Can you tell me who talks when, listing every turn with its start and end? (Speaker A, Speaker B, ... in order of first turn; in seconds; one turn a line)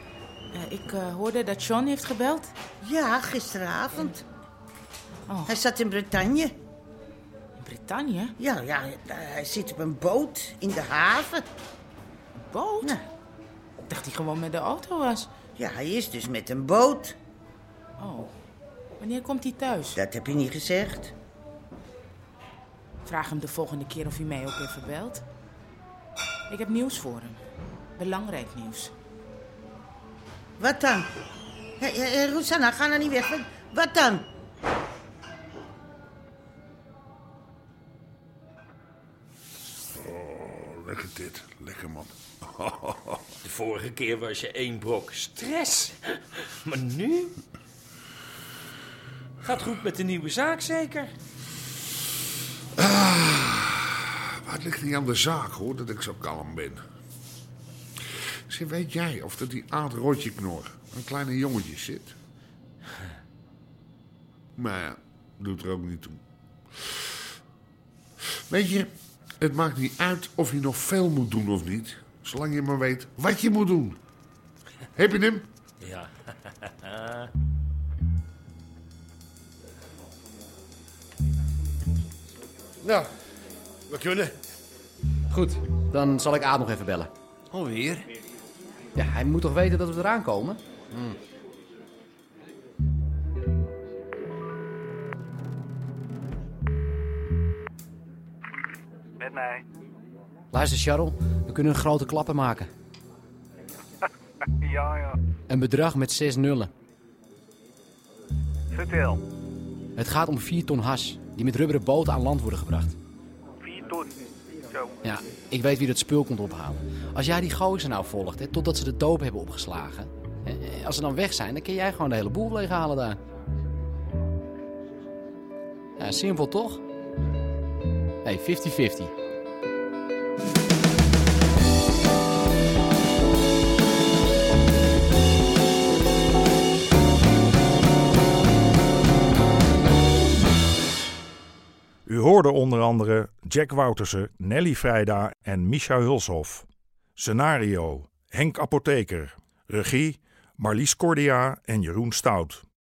Speaker A: 0.5-2.5
Speaker B: 2.8-4.2
Speaker A: 5.3-5.5
Speaker B: 5.5-6.5
Speaker A: 7.6-8.3
Speaker B: 8.4-11.4
Speaker A: 12.5-13.0
Speaker A: 13.9-15.3
Speaker B: 15.6-17.2
Speaker A: 18.0-18.3
Speaker A: 19.0-20.0
Speaker B: 19.9-21.1
Speaker A: 23.0-25.2
Speaker A: 26.5-27.4
Speaker A: 27.9-28.9
Speaker B: 30.6-31.1
Speaker B: 31.8-34.3
Speaker C: 39.9-43.2
Speaker D: 43.4-46.0
Speaker D: 46.6-47.3
Speaker D: 49.4-51.1
Speaker C: 52.8-56.8
Speaker C: 58.5-62.1
Speaker C: 64.5-66.2
Speaker C: 68.5-74.0
Speaker C: 74.9-75.5
Speaker D: 83.9-84.3
Speaker E: 85.3-87.1
Speaker D: 87.5-88.0
Speaker E: 89.0-91.2
Speaker F: 99.2-99.6
Speaker E: 100.5-102.7
Speaker F: 104.6-105.2
Speaker E: 105.5-106.7
Speaker F: 108.7-109.2
Speaker E: 110.0-113.0
Speaker F: 113.6-114.1
Speaker E: 115.0-123.2
Speaker E: 126.0-126.8
Speaker E: 128.2-129.1
Speaker G: 142.1-152.6